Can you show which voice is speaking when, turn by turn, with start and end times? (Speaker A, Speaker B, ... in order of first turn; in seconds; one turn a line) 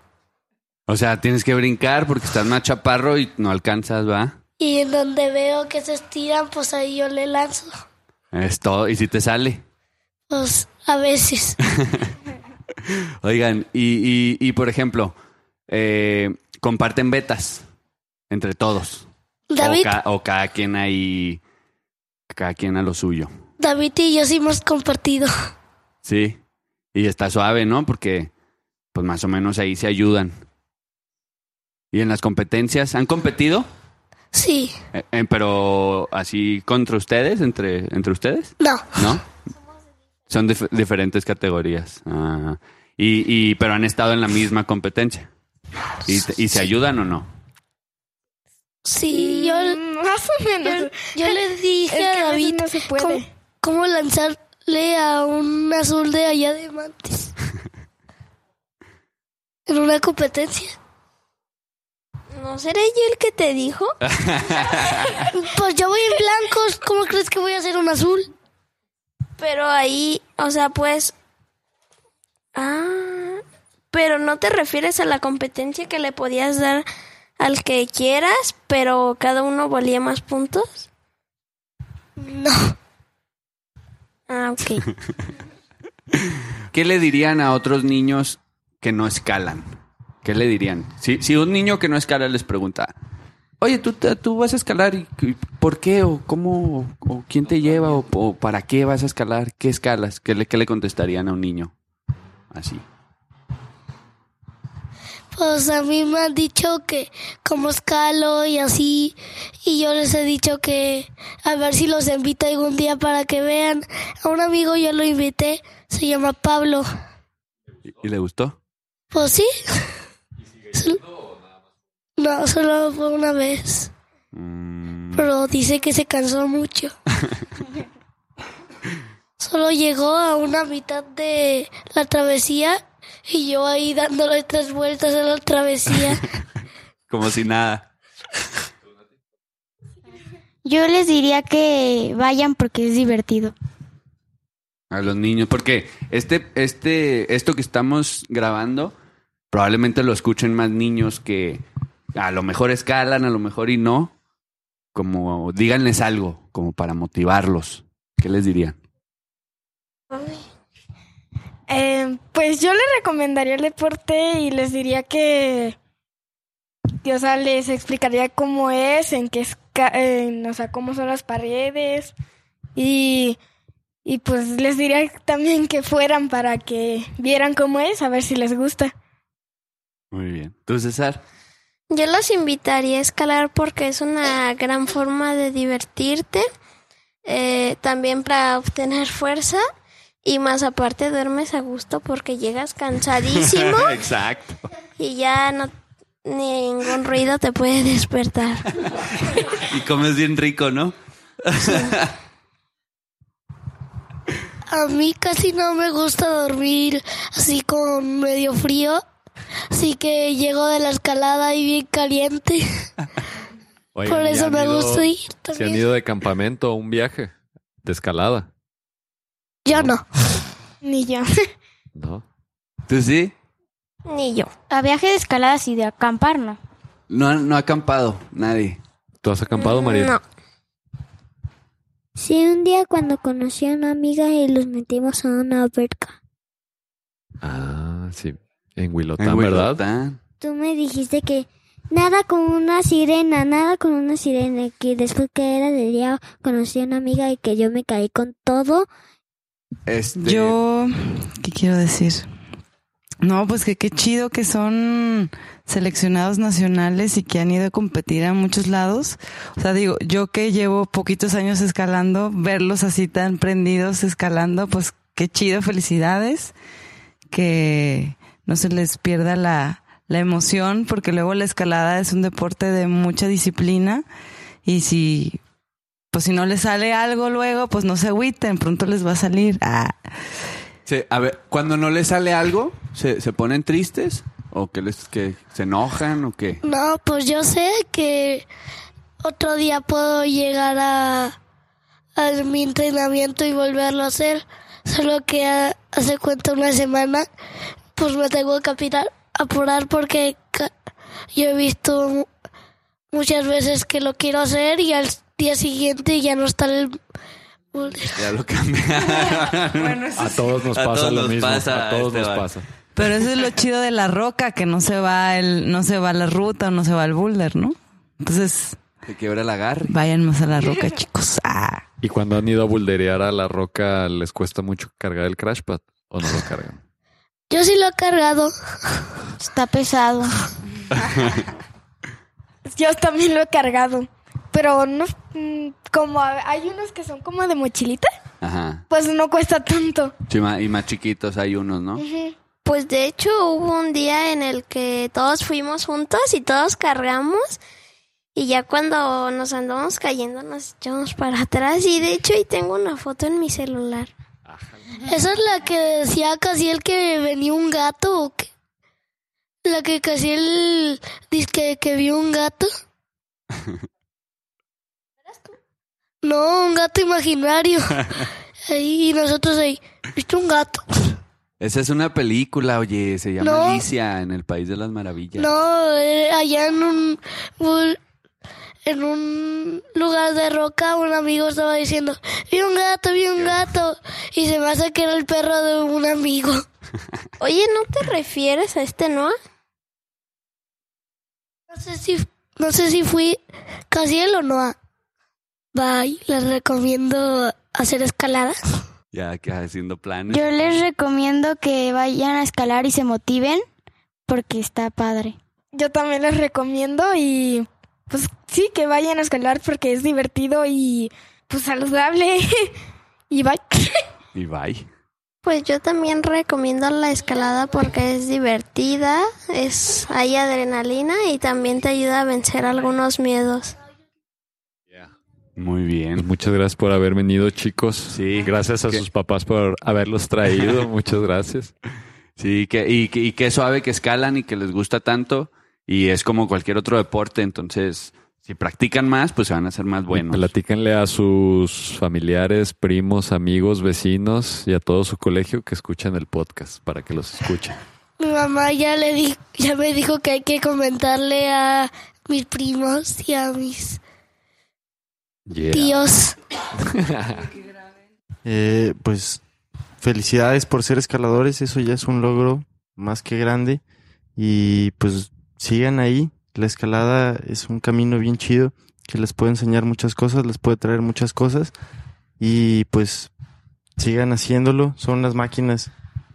Speaker A: 0.9-4.4
Speaker B: 4.6-7.8
Speaker A: 8.3-9.6
Speaker B: 10.3-11.6
Speaker A: 11.8-12.1
Speaker A: 13.2-15.2
Speaker A: 15.7-17.6
Speaker A: 18.3-19.1
Speaker B: 19.5-20.0
Speaker A: 19.6-21.4
Speaker A: 22.3-23.3
Speaker B: 23.6-25.3
Speaker A: 26.0-26.4
Speaker A: 26.9-28.3
Speaker A: 28.9-30.4
Speaker A: 31.9-33.7
Speaker B: 34.3-34.8
Speaker A: 34.9-39.3
Speaker B: 38.6-39.1
Speaker A: 40.3-45.3
Speaker A: 46.0-47.3
Speaker B: 48.9-49.8
Speaker C: 49.1-53.3
Speaker B: 50.6-57.3
Speaker B: 59.7-60.8
Speaker D: 62.3-64.0
Speaker A: 64.1-65.3
Speaker B: 65.3-68.3
Speaker D: 69.4-71.1
Speaker D: 72.5-76.9
Speaker D: 77.4-80.9
Speaker B: 82.2-82.7
Speaker D: 84.3-84.8
Speaker A: 86.7-92.9
Speaker A: 93.6-101.7
Speaker A: 102.5-102.8
Speaker B: 105.3-116.9
Speaker A: 118.0-118.6
Speaker B: 119.1-119.9
Speaker B: 120.7-121.0
Speaker B: 122.2-123.9
Speaker A: 124.3-125.3
Speaker B: 125.2-126.9
Speaker B: 129.4-136.3
Speaker A: 137.1-137.9
Speaker E: 140.7-143.5
Speaker A: 144.9-148.9
Speaker A: 149.5-151.6
Speaker A: 152.2-154.1
Speaker A: 154.9-158.8
Speaker D: 160.1-160.4
Speaker C: 161.7-165.8
Speaker C: 167.0-172.1
Speaker C: 172.8-173.4
Speaker C: 174.1-178.9
Speaker A: 180.1-181.2
Speaker D: 181.9-186.5
Speaker D: 187.3-189.6
Speaker D: 190.2-194.0
Speaker A: 193.5-194.6
Speaker D: 195.0-195.7
Speaker D: 196.2-198.7
Speaker A: 199.6-202.1
Speaker B: 204.7-209.0
Speaker B: 209.7-212.7
Speaker F: 213.9-217.3
Speaker B: 214.0-215.8
Speaker F: 217.8-218.5
Speaker B: 219.7-220.1
Speaker C: 220.8-221.3
Speaker F: 221.9-222.2
Speaker A: 222.9-223.3
Speaker D: 224.1-224.5
Speaker E: 224.7-226.6
Speaker A: 227.1-228.8
Speaker F: 229.2-230.2
Speaker D: 229.6-230.2
Speaker G: 232.2-236.2
Speaker F: 237.4-239.8
Speaker A: 239.2-240.2
Speaker G: 240.4-248.9
Speaker A: 249.9-250.6
Speaker H: 250.2-252.3
Speaker H: 253.2-266.5
Speaker H: 267.3-274.1
Speaker H: 274.6-275.4
Speaker H: 276.1-280.0
Speaker A: 280.9-286.6
Speaker B: 286.6-288.5
Speaker B: 289.2-291.4
Speaker B: 292.2-297.3
Speaker B: 298.0-300.7
Speaker B: 301.3-302.3
Speaker B: 303.1-307.0
Speaker B: 307.7-308.3
Speaker A: 308.2-310.1
Speaker H: 309.5-310.5
Speaker F: 310.2-312.7
Speaker A: 310.7-312.5
Speaker H: 313.0-318.8
Speaker A: 319.1-320.0
Speaker H: 319.9-321.8
Speaker F: 322.0-326.8
Speaker B: 327.5-329.1
Speaker E: 329.4-330.4
Speaker A: 330.9-331.4
Speaker C: 332.7-338.1
Speaker A: 338.4-338.9
Speaker C: 338.9-340.1
Speaker A: 340.3-342.0
Speaker C: 342.0-342.3
Speaker D: 342.6-347.6
Speaker D: 348.4-354.1
Speaker F: 354.5-354.8
Speaker B: 355.0-358.5
Speaker B: 359.6-362.7
Speaker B: 366.2-371.2
Speaker A: 371.6-375.5
Speaker B: 373.4-373.9
Speaker B: 375.4-378.0
Speaker B: 378.9-386.6
Speaker D: 387.4-389.4
Speaker B: 391.7-394.8
Speaker B: 395.7-398.8
Speaker A: 399.1-400.8
Speaker E: 400.3-403.7
Speaker E: 404.3-405.4
Speaker C: 405.7-412.7
Speaker C: 413.3-414.0
Speaker A: 414.4-414.9
Speaker D: 415.4-423.8
Speaker A: 425.6-426.3
Speaker F: 426.2-431.7
Speaker A: 428.1-429.1
Speaker A: 432.4-440.5
Speaker F: 440.1-447.8
Speaker B: 448.2-454.0
Speaker F: 455.5-456.0
Speaker B: 455.7-456.4
Speaker F: 456.8-457.5
Speaker H: 457.6-457.9
Speaker I: 458.4-459.4
Speaker I: 460.0-463.8
Speaker I: 464.4-471.7
Speaker I: 472.4-473.3
Speaker I: 474.0-475.9